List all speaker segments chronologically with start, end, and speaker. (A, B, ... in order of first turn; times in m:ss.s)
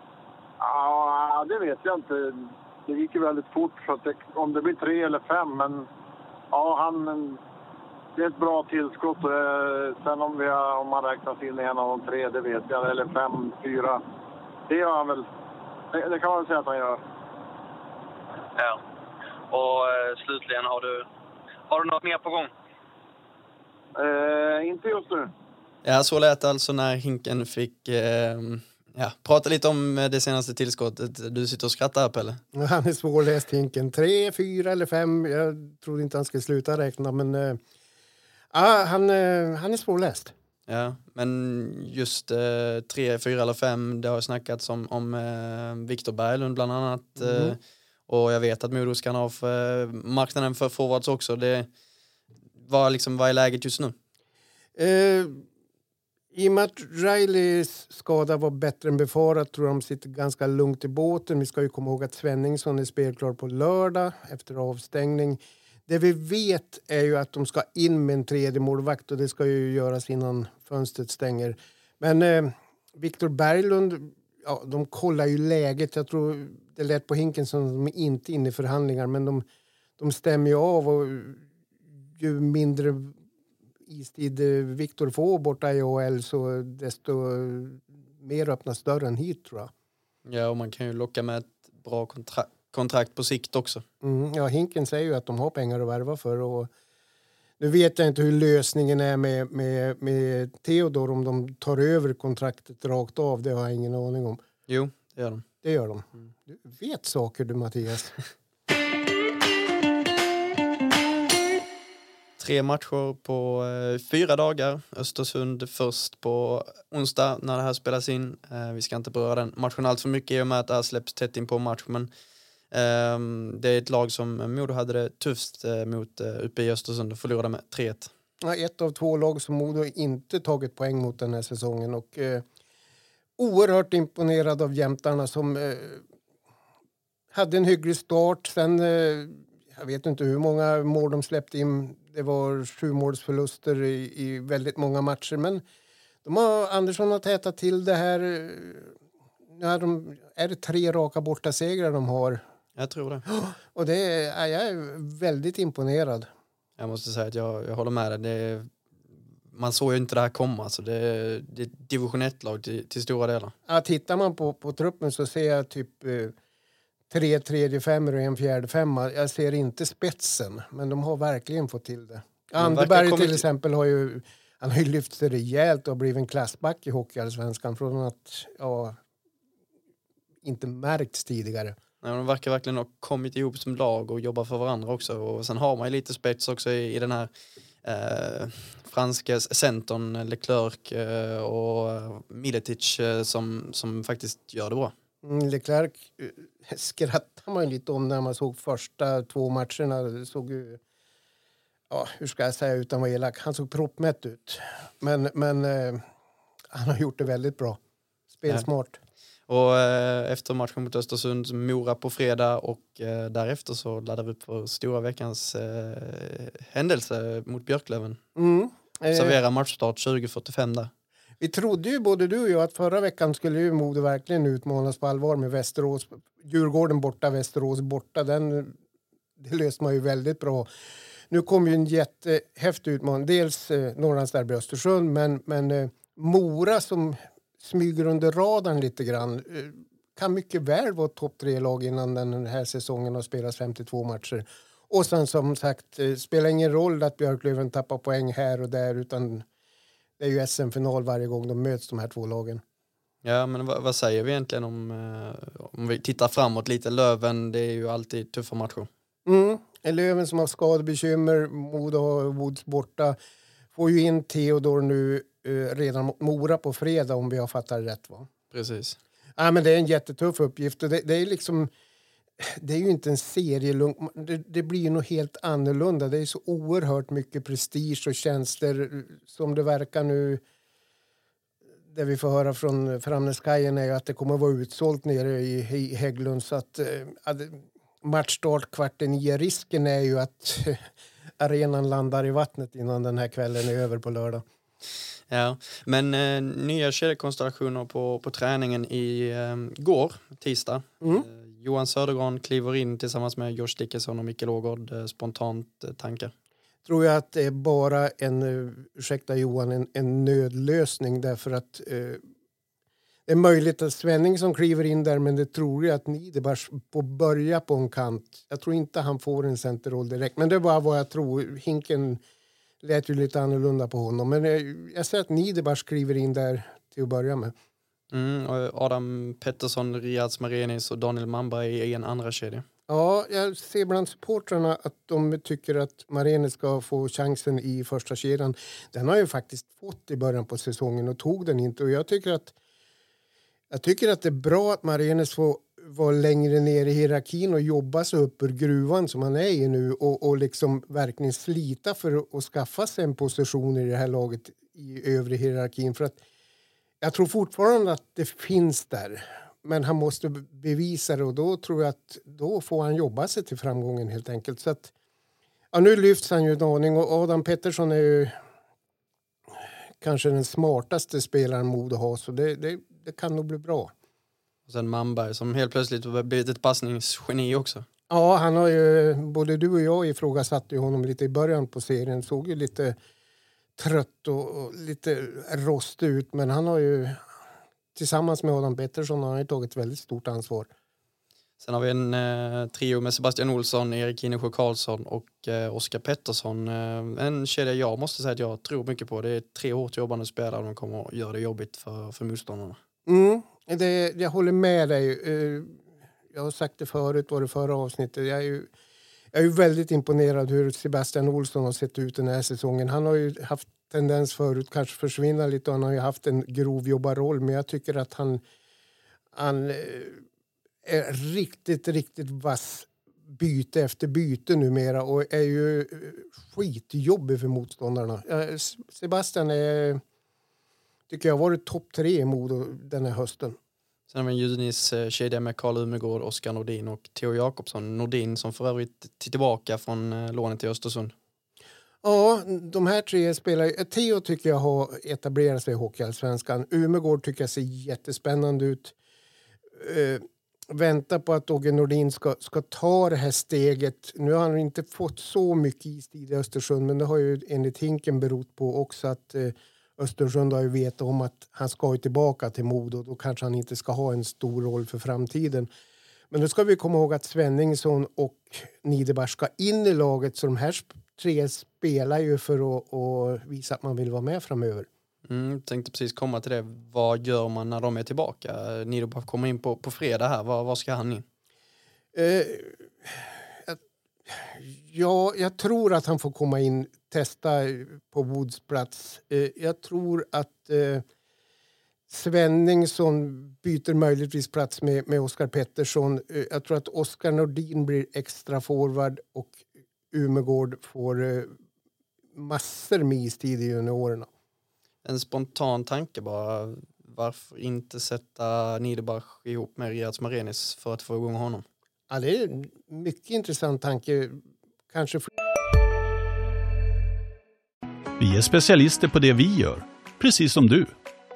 0:00.6-0:05.9 A
0:06.5-0:07.4 A
0:08.2-0:14.0 A
0:14.7-0:15.3 A
0:15.9-0:17.0 A
0:19.5-0:21.1 B
0:21.7-0:22.5 B
0:24.0-0:25.3 A
0:25.8-0:32.4 C
0:32.5-0:37.6 D
0:38.5-0:40.3 D
0:40.7-0:51.7 C
0:47.2-0:47.5 D
0:52.6-0:54.0 C
0:54.8-0:55.4 D
0:56.3-1:19.4 D
1:20.0-1:21.4 D
1:22.2-1:23.2 D
1:23.9-1:29.7 D
1:30.3-1:33.8 C
1:34.0-1:36.7 D
1:37.6-1:44.4 D
1:44.7-1:45.4 C
1:45.6-1:48.2 D
1:52.4-2:02.1 C
2:02.7-2:08.1 C
2:08.4-2:12.4 D
2:13.4-2:16.0 D
2:17.3-2:25.6 D
2:26.2-2:29.0 D
2:29.5-2:32.4 D
2:32.8-2:33.2 C
2:33.3-2:36.3 D
2:36.8-2:38.7 C
2:39.5-2:43.6 C
2:43.7-2:46.4 D
2:47.1-2:59.0 D
2:52.6-2:53.4 C
3:00.4-3:01.8 D
3:02.0-3:07.3 C
3:07.8-3:14.9 C
3:15.2-3:20.8 D
3:21.9-3:26.0 D
3:26.7-3:27.8 D
3:28.3-3:29.0 D
3:29.5-3:38.2 C
3:38.4-3:39.4 D
3:39.1-3:40.9 C
3:41.4-3:48.8 D
3:49.4-3:50.7 D
3:51.3-4:09.5 D
4:10.2-4:12.6 D
4:13.2-4:18.9 C
4:19.3-4:23.2 D
4:23.8-4:28.3 D
4:28.5-4:29.0 C
4:29.4-4:31.7 D
4:32.4-4:40.4 D
4:41.9-4:54.4 D
4:55.3-5:06.3 C
5:01.0-5:01.3 D
5:06.9-5:12.2 D
5:13.3-5:22.2 D
5:22.8-5:27.5 D
5:28.1-5:32.7 C
5:32.9-5:42.5 D
5:43.7-5:56.2 D
5:57.0-6:04.9 D
6:05.7-6:08.4 D
6:10.0-6:13.9 D
6:14.7-6:17.9 C
6:18.1-6:23.0 D
6:23.8-6:27.2 D
6:28.0-6:30.7 D
6:31.6-6:42.8 C
6:43.1-6:45.8 D
6:46.3-6:48.7 D
6:49.3-6:58.4 D
6:59.3-7:00.2 D
7:00.8-7:10.0 D
7:11.1-7:13.6 D
7:14.1-7:21.1 C
7:22.0-7:28.9 D
7:29.8-7:45.7 D
7:46.3-7:54.9 D
7:55.3-8:01.2 C
8:02.1-8:11.0 D
8:12.1-8:21.6 D
8:22.3-8:24.3 D
8:25.0-8:31.6 C
8:32.1-8:35.3 D
8:38.2-8:40.9 E